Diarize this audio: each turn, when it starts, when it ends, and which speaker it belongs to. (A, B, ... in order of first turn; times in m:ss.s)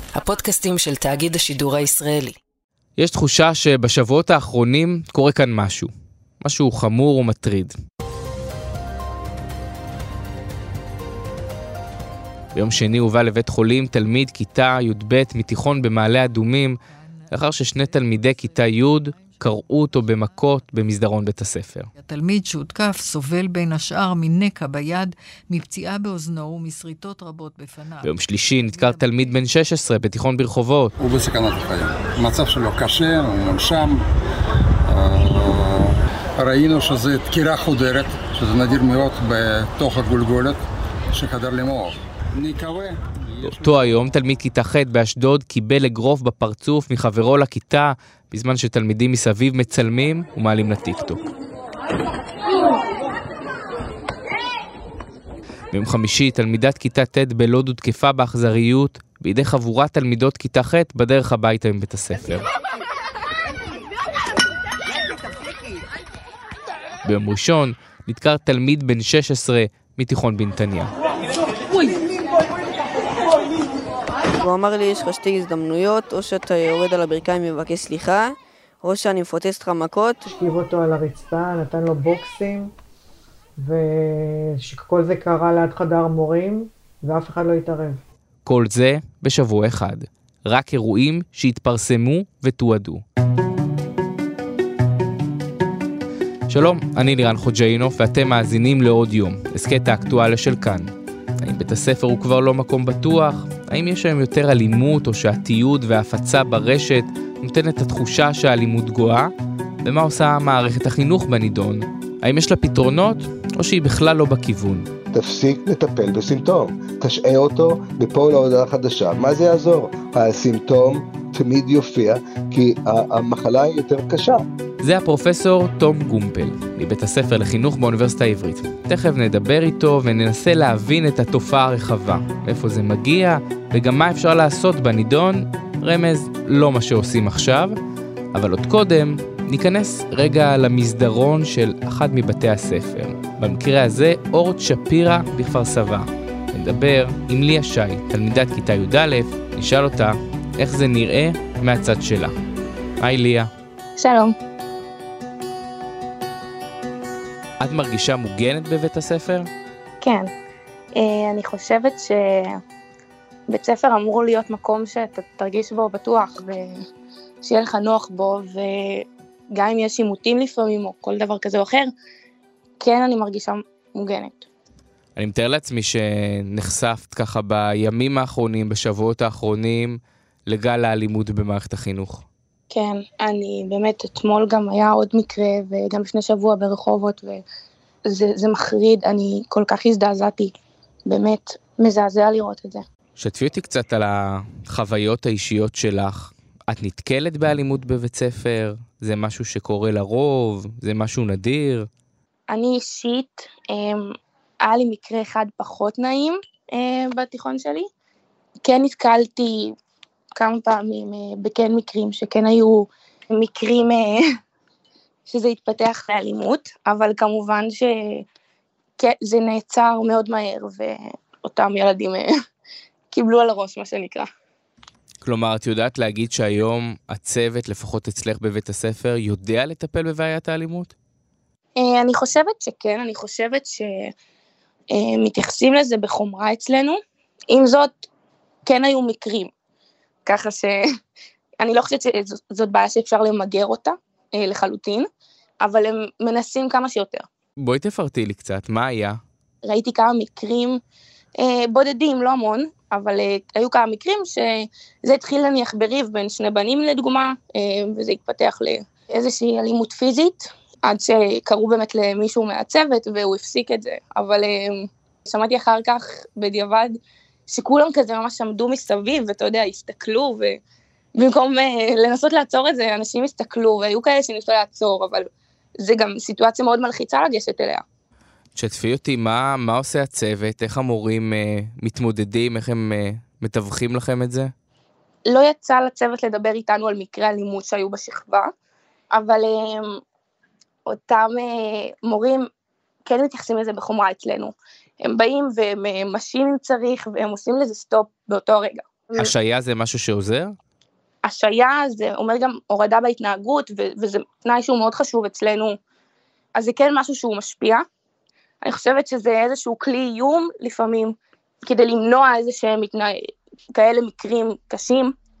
0:00.1-0:02.4 A
0:03.0-0:05.9 B
0:06.4-0:07.7 B
0:12.5-0:16.7 B
0:16.9-0:20.6 C
0:17.3-0:21.9 B
0:21.9-0:29.5 C
0:28.0-0:30.9 B
0:31.0-0:34.0 D
0:34.9-0:40.6 D
0:41.1-0:44.0 D
0:43.4-0:51.2 B
0:55.7-1:02.4 B
1:07.0-1:10.9 B
1:14.4-1:20.2 E
1:20.3-1:22.7 F
1:23.6-1:28.0 F
1:28.4-1:33.0 B
1:36.5-1:40.9 B
1:41.4-1:49.3 B
1:49.8-1:54.9 B
1:55.1-2:04.5 G
2:04.8-2:17.8 B
2:18.3-2:32.3 B
2:33.0-2:33.5 B
2:34.0-2:34.3 H
2:37.6-2:39.5 B
2:40.0-2:40.3 H
2:40.9-2:42.6 H
2:43.5-2:46.8 H
2:47.4-2:51.9 H
2:52.8-2:54.5 H
2:55.2-3:02.2 B
3:02.7-3:07.4 H
3:08.0-3:10.5 H
3:11.1-3:12.8 H
3:13.2-3:21.9 B
3:22.5-3:24.1 H
3:24.6-3:27.9 H
3:28.6-3:29.7 H
3:30.4-3:34.2 H
3:35.3-3:38.2 H
3:39.0-3:42.3 H
3:43.1-3:44.3 H
3:45.2-3:50.9 B
3:51.8-3:54.1 H
3:54.9-3:57.0 H
3:57.5-3:58.1 H
3:58.6-3:59.5 H
4:00.2-4:00.8 H
4:01.6-4:05.1 H
4:05.6-4:07.2 H
4:07.6-4:09.2 B
4:09.6-4:10.8 H
4:11.4-4:30.6 H
4:31.2-4:35.3 H
4:35.8-4:37.8 H
4:38.6-4:44.5 B
4:45.3-4:48.5 H
4:49.1-4:50.0 H
4:50.9-4:52.5 H
4:53.0-4:59.3 H
4:59.2-5:00.5 B
5:01.2-5:05.8 H
5:06.6-5:07.8 H
5:08.6-5:15.1 H